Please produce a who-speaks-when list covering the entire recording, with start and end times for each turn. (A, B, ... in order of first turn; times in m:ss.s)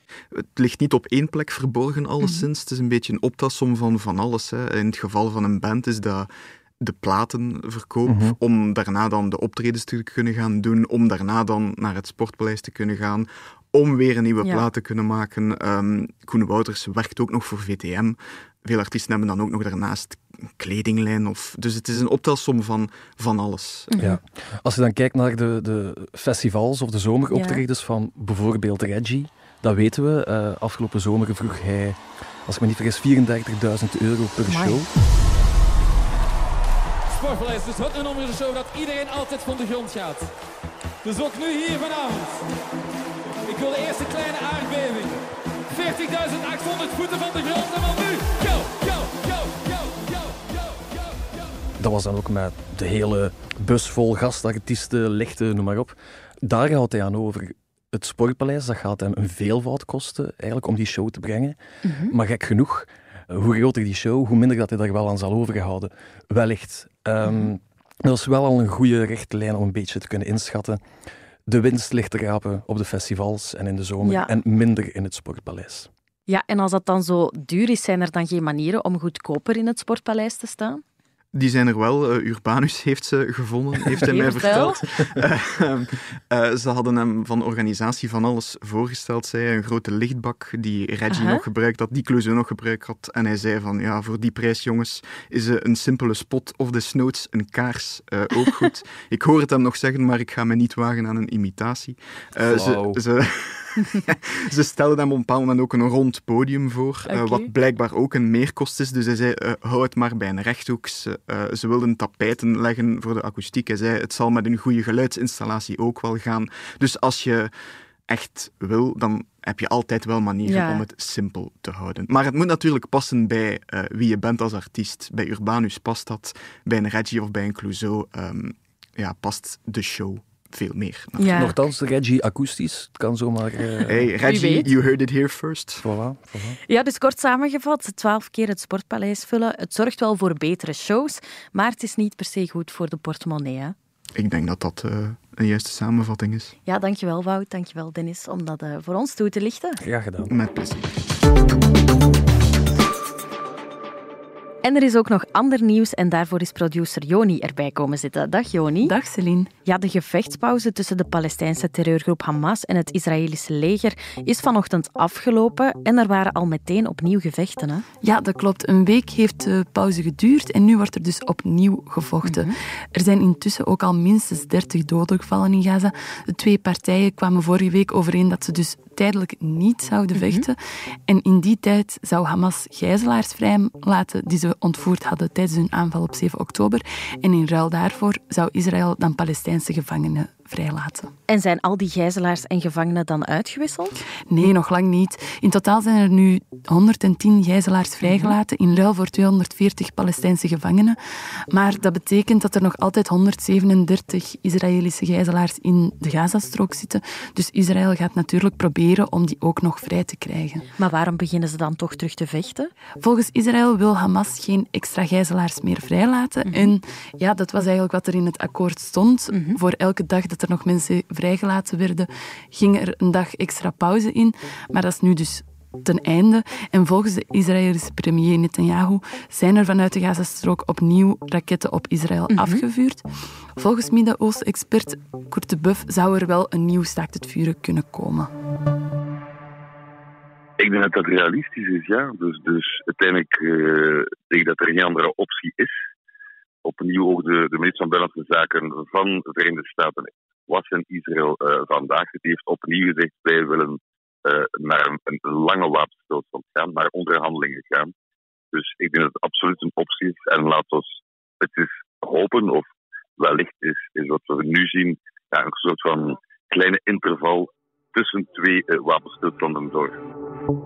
0:00.3-0:23.9 A
0:08.0-0:08.4 B
0:23.9-0:24.2 C
0:24.0-0:34.9 B
0:27.3-0:27.6 C
0:34.5-0:34.8 C
0:37.1-0:40.3 D
0:41.0-0:42.4 D
0:43.5-0:50.9 D
0:51.8-1:01.6 B
1:01.8-1:02.1 C
1:02.1-1:10.8 B
1:11.5-1:15.9 B
1:14.0-1:14.3 C
1:16.3-1:20.8 C
1:21.3-1:57.5 A
1:24.0-1:24.8 C
1:31.1-1:31.4 C
1:42.4-1:43.0 B
1:47.0-1:47.5 C
1:58.1-2:11.5 A
2:00.4-2:00.8 C
2:11.2-2:11.5 C
2:11.3-2:14.1 B
2:13.9-2:15.8 A
2:14.2-2:14.7 C
2:15.8-2:16.6 B
2:16.7-2:23.7 C
2:24.2-2:26.5 A
2:26.6-2:29.8 C
2:29.8-2:30.3 B
2:30.3-2:30.9 A
2:34.6-2:38.9 C
2:38.9-2:39.5 E
2:39.6-2:47.8 C
2:48.0-3:00.6 E
2:52.2-2:52.5 C
3:00.1-3:00.5 C
3:01.1-3:11.1 E
3:11.3-3:14.5 C
3:14.3-3:21.0 E
3:18.0-3:18.4 C
3:21.5-3:30.6 E
3:30.8-3:32.7 C
3:33.0-3:53.0 E
3:36.4-3:36.7 C
3:39.3-3:39.6 C
3:52.3-3:52.6 C
3:53.6-3:58.3 E
4:00.6-4:05.7 F
4:06.6-4:17.9 F
4:18.5-4:22.6 F
4:23.2-4:30.0 F